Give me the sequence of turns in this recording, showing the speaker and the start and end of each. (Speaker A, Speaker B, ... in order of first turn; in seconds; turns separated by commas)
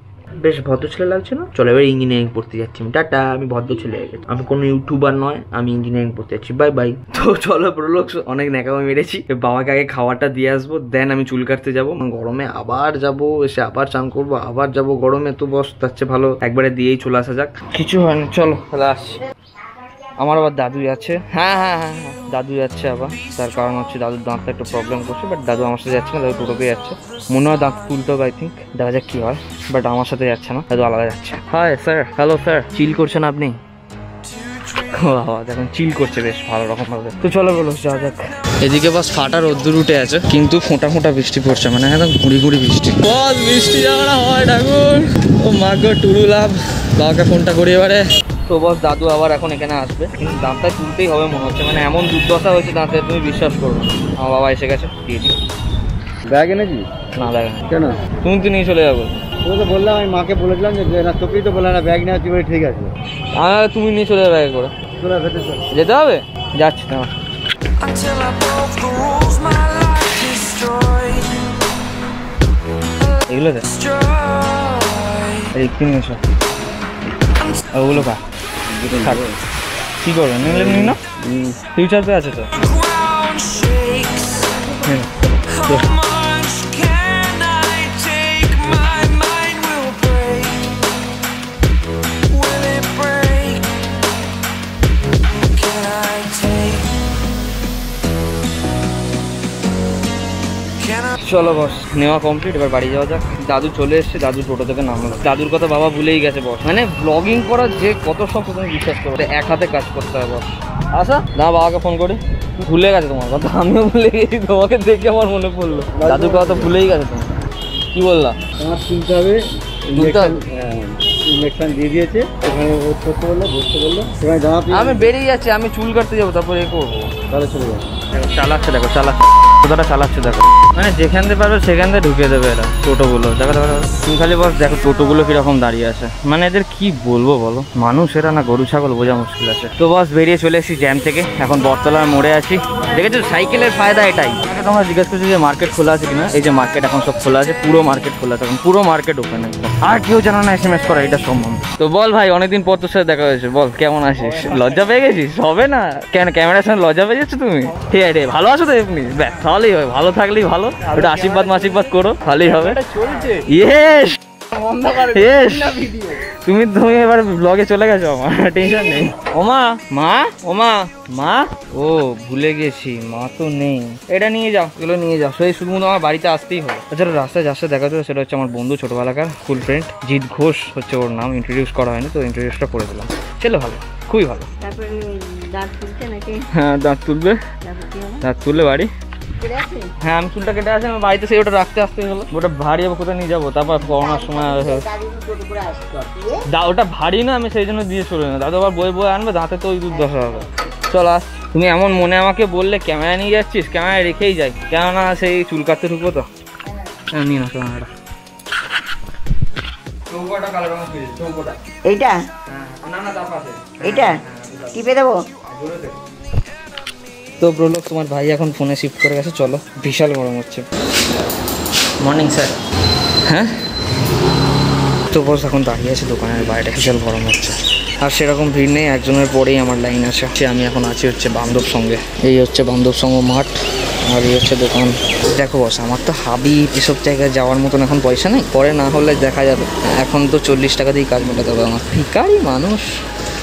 Speaker A: 0.4-19.2, Speaker A: 20.2-33.6, Speaker A: 34.7-55.3, Speaker B: 56.3-56.9, Speaker A: 57.1-57.6, Speaker B: 57.7-58.0, Speaker A: 58.2-59.2, Speaker B: 59.4-62.9, Speaker A: 63.4-64.7, Speaker B: 65.0-65.6, Speaker A: 65.7-67.1, Speaker C: 67.8-71.5, Speaker A: 73.3-73.7, Speaker C: 74.0-75.2, Speaker A: 75.5-76.2, Speaker A: 77.7-78.2, Speaker B: 78.8-79.3, Speaker A: 78.9-79.3, Speaker A: 80.0-81.0, Speaker B: 80.4-81.6, Speaker A: 81.7-82.5, Speaker C: 82.8-84.3, Speaker A: 84.8-86.0, Speaker C: 86.0-90.7, Speaker C: 92.3-93.7, Speaker C: 95.5-96.9, Speaker A: 101.2-117.3, Speaker B: 116.0-116.7, Speaker A: 117.9-118.4, Speaker B: 118.6-125.1, Speaker A: 120.0-120.4, Speaker A: 124.7-127.1, Speaker B: 127.3-127.8, Speaker A: 128.1-164.2, Speaker A: 164.7-184.5, Speaker D: 184.6-186.4, Speaker A: 186.5-187.4, Speaker D: 187.6-188.2, Speaker A: 188.2-188.9, Speaker D: 189.4-189.9, Speaker A: 190.0-194.9, Speaker D: 193.9-196.4, Speaker A: 196.5-206.3, Speaker A: 207.1-207.9, Speaker A: 210.1-211.6, Speaker D: 211.9-212.2, Speaker A: 212.5-214.9, Speaker D: 213.8-214.2, Speaker D: 214.7-215.2, Speaker A: 215.5-216.0, Speaker A: 217.4-220.7, Speaker A: 222.0-222.6, Speaker A: 225.1-233.5, Speaker A: 234.1-242.8